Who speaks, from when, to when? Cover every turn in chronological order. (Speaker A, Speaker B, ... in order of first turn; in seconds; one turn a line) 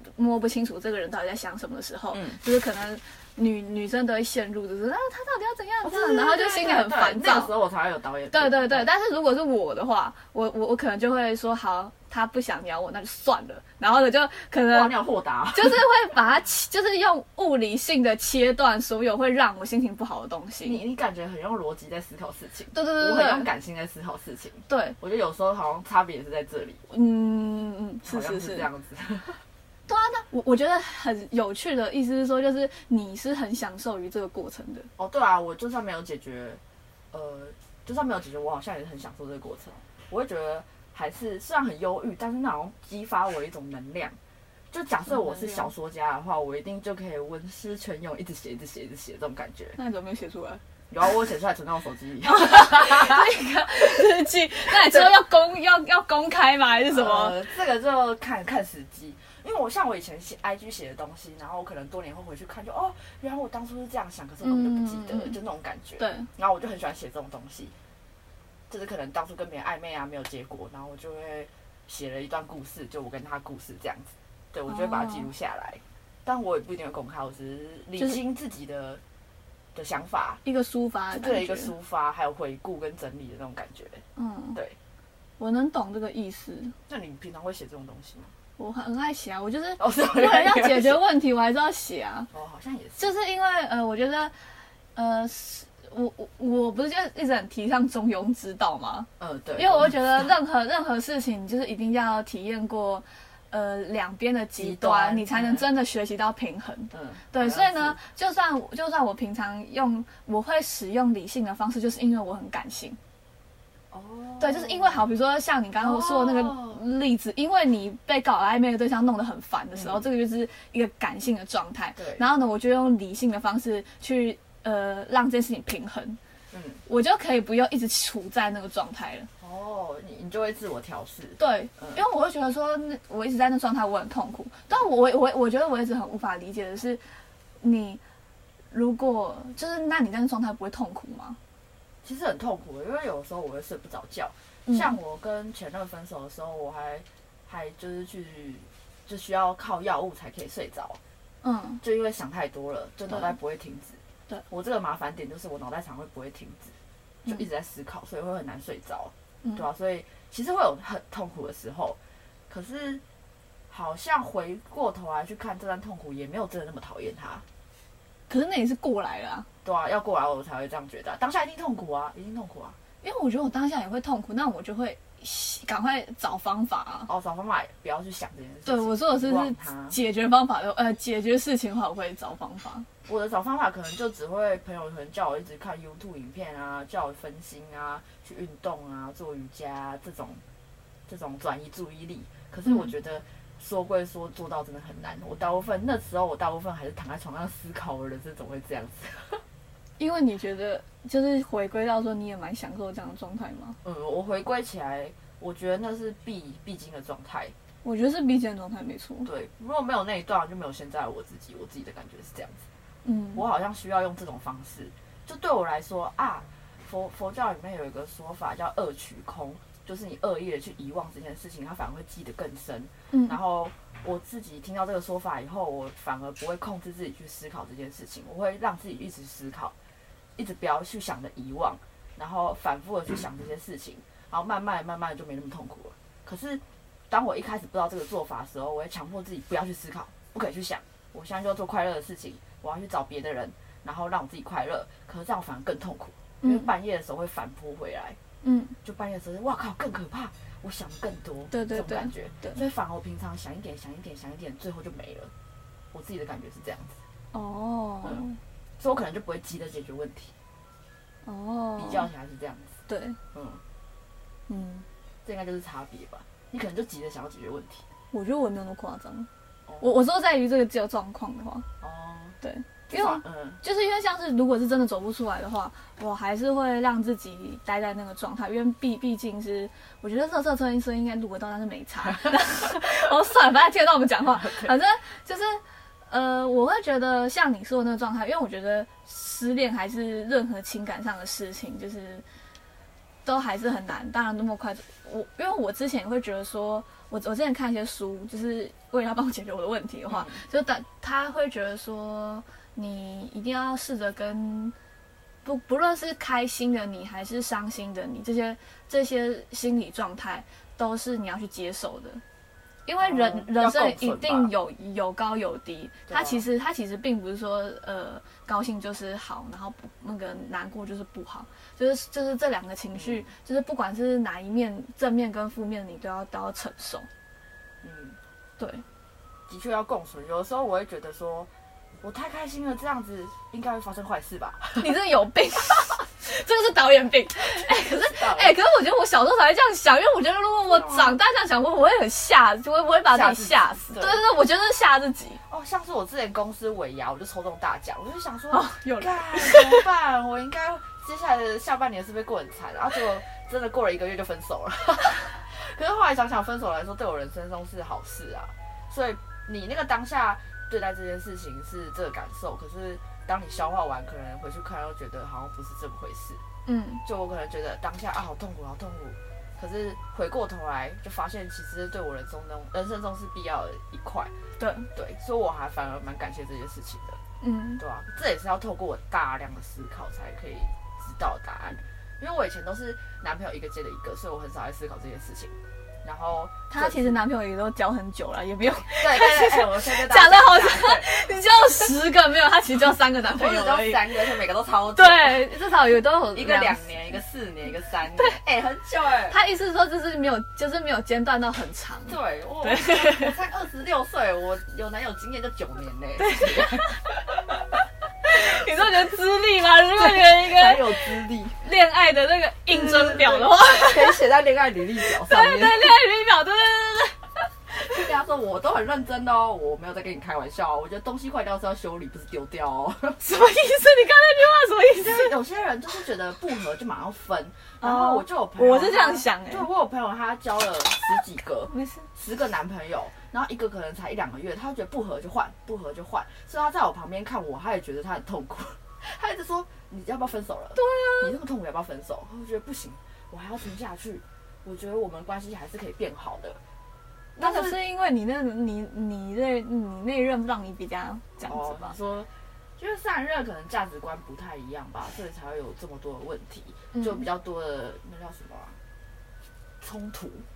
Speaker A: 0.1-7.5
Speaker B: 2.1-2.4
Speaker B: 5.8-8.9
Speaker A: 8.3-14.9
Speaker B: 14.7-15.8
Speaker A: 15.5-20.8
Speaker B: 20.6-26.8
Speaker A: 22.7-23.5
Speaker A: 24.7-24.9
Speaker A: 26.9-28.7
Speaker B: 28.1-29.4
Speaker A: 29.9-34.9
Speaker B: 35.0-36.6
Speaker B: 37.1-44.1
Speaker B: 44.7-49.8
Speaker A: 45.1-45.7
Speaker A: 49.8-50.6
Speaker B: 50.9-53.3
Speaker A: 52.2-57.4
Speaker B: 54.7-55.1
Speaker B: 56.9-67.7
Speaker A: 64.4-65.4
Speaker A: 66.0-66.3
Speaker B: 68.7-79.0
Speaker A: 74.7-75.3
Speaker B: 79.7-80.4
Speaker A: 80.4-81.7
Speaker B: 81.1-84.0
Speaker A: 84.2-84.6
Speaker A: 85.4-86.7
Speaker B: 86.9-88.3
Speaker A: 88.6-92.3
Speaker B: 89.8-91.0
Speaker B: 92.3-93.1
Speaker A: 93.0-94.3
Speaker A: 94.9-113.0
Speaker B: 99.2-100.3
Speaker B: 104.6-105.7
Speaker B: 106.9-108.0
Speaker B: 113.9-115.1
Speaker A: 114.4-126.2
Speaker B: 115.8-116.8
Speaker B: 119.7-120.0
Speaker B: 122.0-122.2
Speaker B: 126.5-126.8
Speaker A: 126.8-129.3
Speaker B: 129.4-132.0
Speaker A: 131.4-137.0
Speaker A: 137.6-138.0
Speaker A: 138.7-141.4
Speaker B: 142.0-151.0
Speaker A: 144.7-145.0
Speaker A: 151.4-151.8
Speaker B: 151.8-156.7
Speaker B: 157.2-162.0
Speaker B: 162.5-163.0
Speaker B: 163.7-167.4
Speaker A: 168.3-169.5
Speaker B: 169.6-172.8
Speaker A: 173.0-177.1
Speaker B: 177.1-180.0
Speaker A: 178.6-182.9
Speaker B: 183.1-190.4
Speaker B: 191.1-199.4
Speaker A: 200.0-203.8
Speaker B: 203.8-207.5
Speaker A: 207.8-209.3
Speaker B: 209.2-212.6
Speaker A: 213.0-213.4
Speaker B: 213.3-229.7
Speaker A: 223.1-223.4
Speaker B: 230.3-248.2
Speaker A: 246.4-246.7
Speaker A: 248.4-248.7
Speaker B: 248.8-255.3
Speaker A: 251.5-252.6
Speaker B: 255.9-257.0
Speaker A: 257.3-258.4
Speaker B: 258.8-260.3
Speaker A: 261.2-262.1
Speaker B: 261.8-262.8
Speaker A: 262.9-263.2
Speaker B: 263.3-263.6
Speaker A: 264.5-264.9
Speaker B: 265.2-267.8
Speaker A: 268.1-269.3
Speaker A: 269.8-271.7
Speaker B: 271.8-272.4
Speaker A: 272.4-292.2
Speaker B: 272.9-273.6
Speaker B: 284.4-284.7
Speaker A: 293.2-304.7
Speaker B: 300.1-300.4
Speaker A: 305.4-312.2
Speaker A: 312.9-327.1
Speaker B: 313.0-314.5
Speaker B: 316.1-316.4
Speaker B: 322.9-323.2
Speaker B: 327.8-328.2
Speaker A: 328.6-328.8
Speaker B: 329.5-331.5
Speaker B: 332.0-334.9
Speaker A: 334.8-345.4
Speaker B: 337.6-338.5
Speaker B: 340.7-341.2
Speaker B: 343.1-344.2
Speaker B: 345.5-366.4
Speaker A: 348.5-349.9
Speaker A: 366.6-367.0
Speaker B: 367.0-374.3
Speaker A: 374.6-374.9
Speaker B: 374.9-377.2
Speaker A: 377.4-377.8
Speaker B: 377.8-387.2
Speaker A: 386.7-394.2
Speaker B: 388.8-391.1
Speaker B: 393.3-395.5
Speaker A: 394.9-396.9
Speaker B: 396.3-399.4
Speaker A: 399.3-403.4
Speaker B: 402.1-407.1
Speaker A: 406.2-407.2
Speaker A: 408.2-411.0
Speaker B: 410.0-411.6
Speaker A: 411.6-414.2
Speaker B: 412.7-415.9
Speaker A: 415.1-417.5
Speaker B: 417.7-423.2
Speaker A: 423.2-425.3
Speaker B: 425.0-446.6
Speaker A: 427.8-429.7
Speaker A: 431.7-432.1
Speaker A: 440.7-441.4
Speaker B: 447.4-447.8
Speaker A: 447.4-451.9
Speaker B: 451.4-458.8
Speaker A: 456.9-457.2
Speaker B: 459.8-460.4